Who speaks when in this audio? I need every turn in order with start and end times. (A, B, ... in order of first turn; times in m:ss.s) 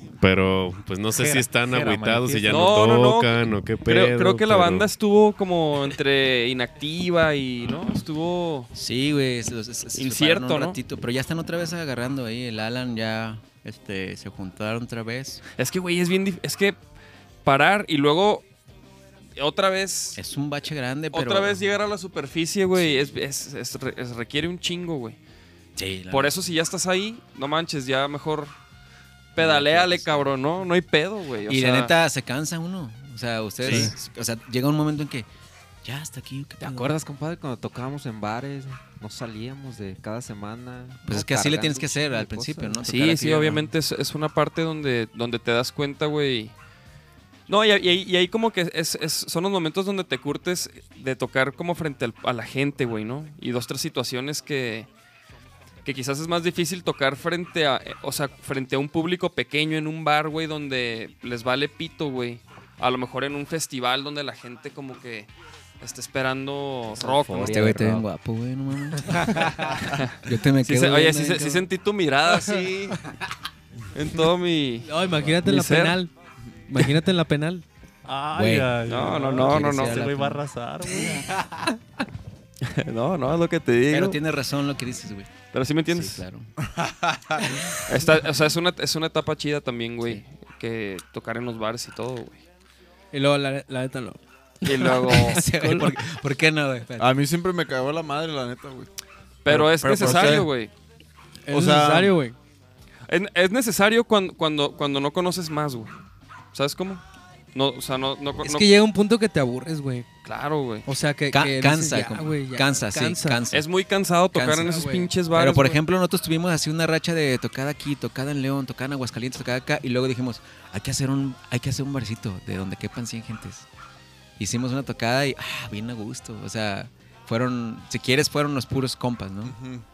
0:00.2-0:04.9 A
0:01.1-0:02.8 B
0:02.5-0:08.7 C
0:08.7-0:15.4 D
0:09.9-0:10.8 C
0:15.6-0:16.8 C
0:17.4-0:18.4 C
0:19.4-0:20.2 C
0:20.2-0:21.6 D
0:21.1-0:25.2 C
0:22.7-0:23.1 D
0:25.8-0:26.4 D
0:26.1-0:28.5 C
0:29.3-0:31.9 C
0:29.4-0:30.3 D
0:31.5-0:35.3 D
0:33.6-0:33.9 C
0:35.8-0:36.9 D
0:36.6-0:42.8 E
0:41.0-0:43.7 D
0:42.8-0:46.5 C
0:47.5-0:54.9 C
0:55.8-1:05.3 C
1:05.8-1:07.7 C
1:06.9-1:08.0 E
1:07.4-1:11.7 D
1:09.1-1:09.8 E
1:09.8-1:12.9 C
1:12.4-1:12.9 E
1:13.9-1:16.0 C
1:14.8-1:16.1 F
1:16.7-1:17.6 F
1:18.0-1:21.4 B
1:18.3-1:18.8 D
1:18.8-1:20.1 C
1:19.4-1:20.4 D
1:22.6-1:24.2 C
1:23.9-1:25.3 D
1:25.5-1:26.2 C
1:25.9-1:26.5 D
1:26.7-1:27.6 G
1:27.8-1:32.4 C
1:33.1-1:35.9 F
1:34.6-1:35.4 C
1:35.0-1:37.1 D
1:37.0-1:38.9 G
1:39.4-1:40.7 C
1:39.5-1:40.5 G
1:40.0-1:40.4 D
1:41.5-1:42.4 F
1:41.5-1:42.2 G
1:43.1-1:45.9 C
1:46.5-1:47.0 C
1:47.5-1:48.7 C
1:48.4-1:50.0 F
1:50.2-1:50.8 C
1:50.8-1:53.4 F
1:51.3-1:53.7 D
1:53.5-1:55.8 C
1:54.3-2:03.6 D
1:54.6-1:55.1 F
2:04.4-2:09.6 D
2:09.4-2:09.8 G